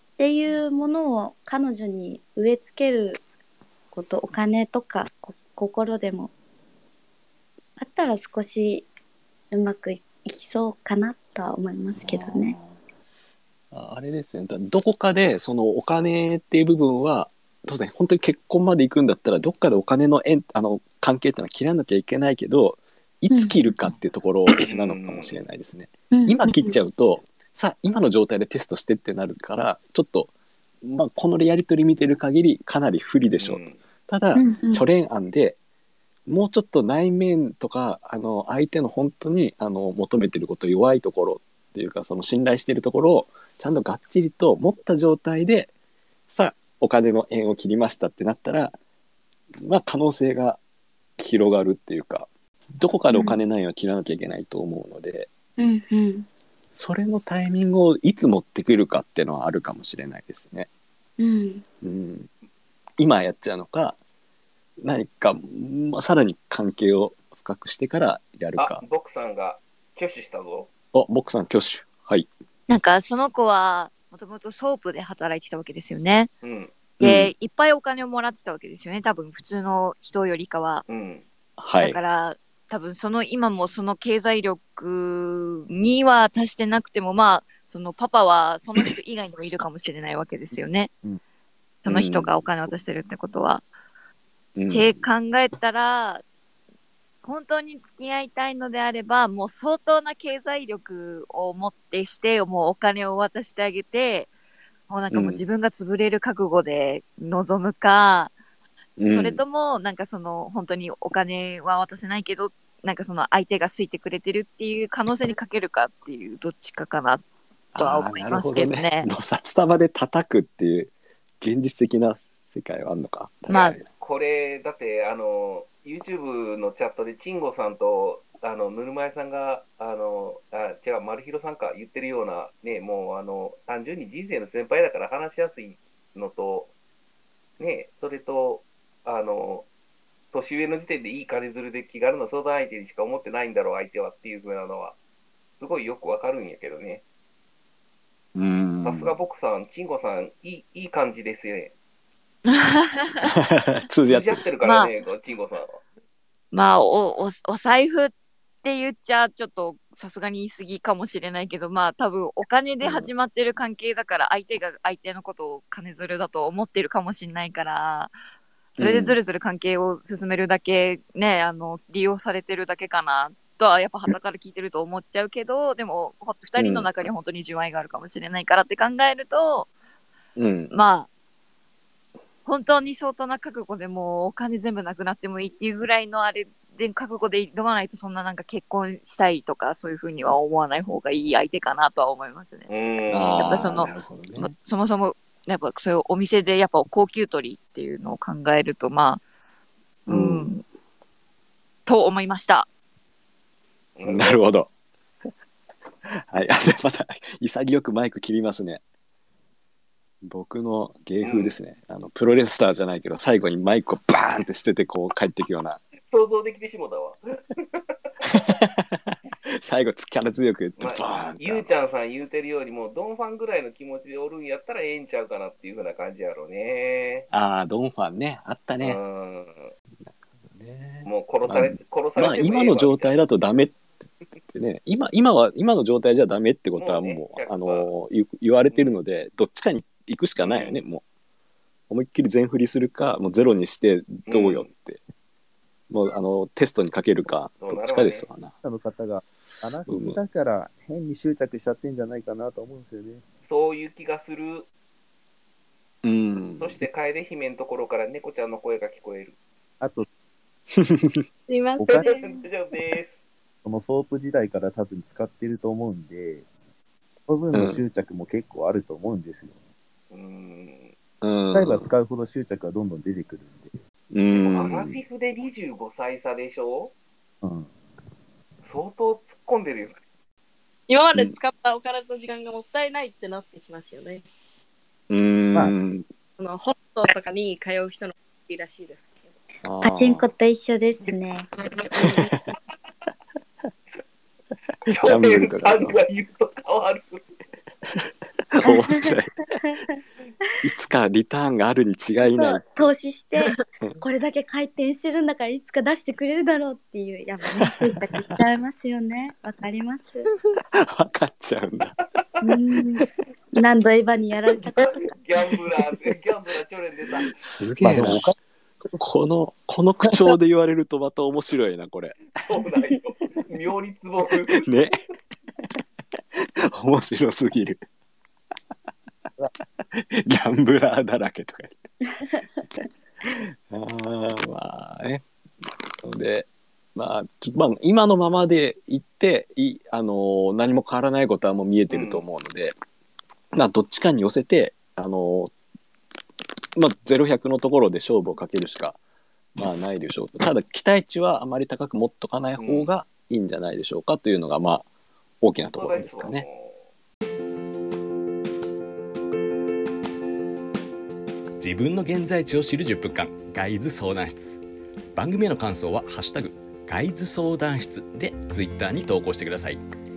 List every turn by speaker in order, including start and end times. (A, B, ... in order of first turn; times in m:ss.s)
0:00.2-0:03.2 A
0:03.9-0:06.3 A
0:07.8-0:08.9 A
0:09.5-0:12.6 A
0:12.0-0:12.8 B
0:13.7-0:30.3 B
0:24.6-0:25.5 C
0:26.1-0:26.7 A
0:30.8-0:35.6 B
0:33.4-0:33.8 C
0:34.4-0:34.8 A
0:36.3-0:45.7 B
0:46.3-0:48.8 B
0:49.6-0:50.6 B
0:51.2-0:55.3 B
0:53.1-0:53.4 A
0:55.6-0:56.3 A
0:56.8-1:00.7 B
1:01.2-1:01.6 A
1:01.8-1:02.3 B
1:03.0-1:04.0 B
1:04.8-1:08.8 B
1:08.6-1:10.7 C
1:10.9-1:12.3 B
1:12.7-1:16.3 D
1:16.4-1:16.8 C
1:17.0-1:20.8 D
1:17.0-1:17.3 B
1:20.9-1:21.2 C
1:21.6-1:22.0 B
1:21.8-1:30.9 D
1:31.8-1:33.6 D
1:31.9-1:32.4 B
1:34.6-1:35.0 B
1:34.7-1:36.2 D
1:37.2-1:44.3 D
1:44.9-1:48.3 D
1:45.1-1:45.4 B
1:49.0-1:49.4 B
1:49.1-1:57.2 D
1:57.8-2:03.9 B
1:57.8-1:59.1 D
2:03.5-2:03.8 D
2:03.5-2:16.7 C
2:17.6-2:19.7 C
2:20.3-2:25.0 C
2:25.6-2:27.0 C
2:28.4-2:29.2 B
2:28.8-2:31.7 C
2:32.5-2:33.0 D
2:33.2-2:34.4 B
2:34.1-2:35.7 C
2:34.6-2:34.9 D
2:36.5-2:38.1 D
2:38.6-2:48.1 D
2:42.8-2:43.1 B
2:48.8-2:49.2 B
2:48.8-2:59.7 D
2:56.6-2:56.9 B
3:00.4-3:00.7 B
3:00.7-3:01.1 D
3:02.4-3:12.7 D
3:12.7-3:13.6 C
3:13.1-3:14.5 B
3:13.4-3:19.2 D
3:20.1-3:20.5 B
3:20.1-3:20.6 D
3:21.9-3:22.7 D
3:24.0-3:24.4 C
3:24.0-3:24.7 B
3:26.3-3:28.8 B
3:30.2-3:35.8 B
3:31.2-3:31.6 C
3:36.1-3:37.2 C
3:38.3-3:41.8 B
3:40.8-3:47.3 C
3:47.3-3:49.0 B
3:48.8-3:49.7 C
3:50.1-3:53.8 B
3:51.0-3:53.2 C
3:54.5-4:01.0 B
3:56.8-3:57.9 C
3:58.6-3:59.0 C
4:00.4-4:00.8 C
4:01.9-4:05.0 B
4:04.3-4:04.7 C
4:05.9-4:08.5 B
4:07.6-4:08.3 C
4:08.6-4:13.2 E
4:09.9-4:10.2 B
4:13.4-4:14.7 C
4:16.0-4:16.8 B
4:16.6-4:19.4 C
4:19.8-4:20.1 E
4:20.8-4:21.2 B
4:21.5-4:22.4 F
4:21.9-4:23.2 C
4:23.6-4:26.4 E
4:27.3-4:29.5 E
4:27.5-4:27.8 B
4:30.1-4:30.9 C
4:31.2-4:31.9 B
4:31.5-4:33.8 E
4:34.1-4:35.0 B
4:34.3-4:36.9 C
4:37.4-4:37.7 E
4:38.6-4:40.0 C
4:40.9-4:44.2 F
4:45.1-4:46.0 B
4:46.4-4:49.3 F
4:49.6-4:50.3 B
4:49.8-4:51.5 A
4:51.8-4:52.2 C
4:52.0-4:52.5 B
4:54.9-4:57.2 C
4:54.9-4:56.0 B
4:57.9-4:59.3 B
4:58.7-4:59.1 A
5:00.6-5:02.7 B
5:02.2-5:03.4 A
5:04.0-5:10.2 A
5:10.8-5:12.0 B
5:12.4-5:13.1 C
5:12.4-5:13.0 A
5:13.6-5:14.8 A
5:14.4-5:17.3 C
5:17.3-5:18.2 B
5:17.8-5:18.4 E
5:18.9-5:22.2 B
5:22.4-5:24.7 C
5:24.6-5:24.9 B
5:26.4-5:27.8 B
5:30.0-5:31.8 B
5:33.7-5:35.2 B
5:36.0-5:42.8 B
5:41.9-5:42.2 C
5:43.5-5:45.5 B
5:46.8-5:49.0 B
5:49.6-5:54.9 B
5:52.5-5:52.9 C
5:55.4-5:56.5 B
5:55.7-5:56.9 C
6:01.6-6:04.6 G
6:05.2-6:09.8 G